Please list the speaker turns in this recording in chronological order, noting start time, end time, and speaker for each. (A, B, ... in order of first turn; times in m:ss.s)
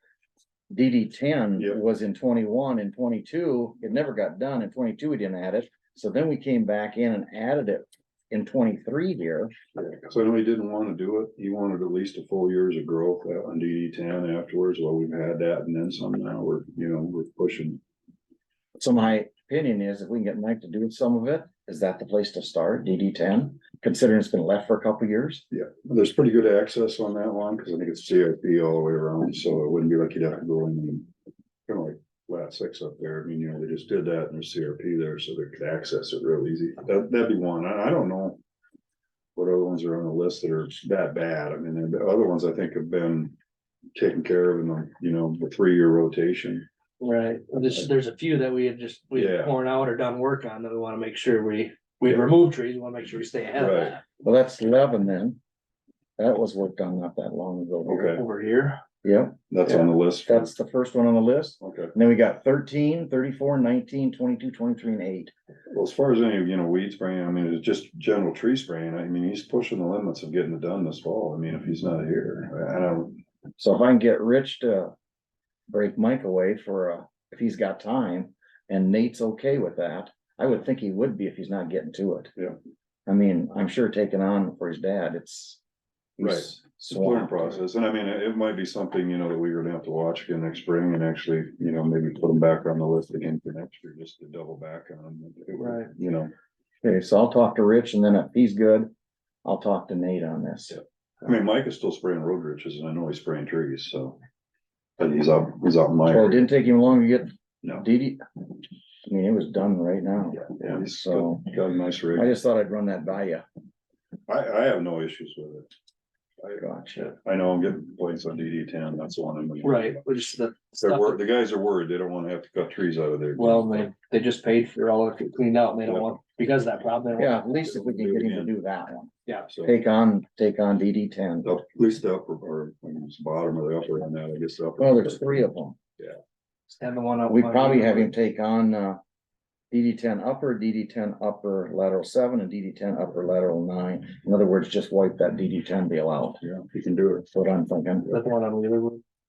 0:00.7-0:09.5 A
0:09.8-0:17.8 B
0:18.8-0:25.4 A
0:25.5-0:31.1 B
0:31.7-0:38.4 B
0:39.4-0:43.3 B
0:44.0-0:46.7 B
0:47.0-0:54.0 C
0:49.2-0:49.5 B
0:53.6-0:54.0 B
0:54.2-0:55.4 A
0:56.2-0:58.2 A
0:57.9-0:58.8 C
0:57.9-0:58.2 B
0:59.0-1:05.3 A
0:59.5-1:00.5 B
1:01.6-1:01.9 B
1:05.7-1:13.2 B
1:13.6-1:14.9 A
1:15.7-1:22.3 A
1:23.1-1:25.6 A
1:26.2-1:27.6 A
1:26.2-1:36.3 B
1:35.6-1:35.9 C
1:36.8-1:38.9 A
1:39.4-1:40.8 A
1:41.2-1:44.2 B
1:45.0-1:46.5 B
1:46.1-1:48.2 A
1:49.0-1:51.5 A
1:50.5-1:52.3 B
1:52.1-1:53.4 A
1:54.3-1:55.7 B
1:56.5-1:57.2 A
1:57.2-2:00.0 B
1:59.6-2:01.2 C
2:00.8-2:03.9 B
2:03.4-2:07.4 C
2:05.9-2:06.2 B
2:07.2-2:09.1 A
2:07.6-2:08.5 B
2:09.6-2:11.5 A
2:11.4-2:15.4 B
2:14.8-2:15.8 A
2:16.8-2:18.1 C
2:17.3-2:19.0 A
2:19.7-2:26.4 A
2:26.4-2:27.3 B
2:27.3-2:28.1 A
2:28.1-2:29.0 C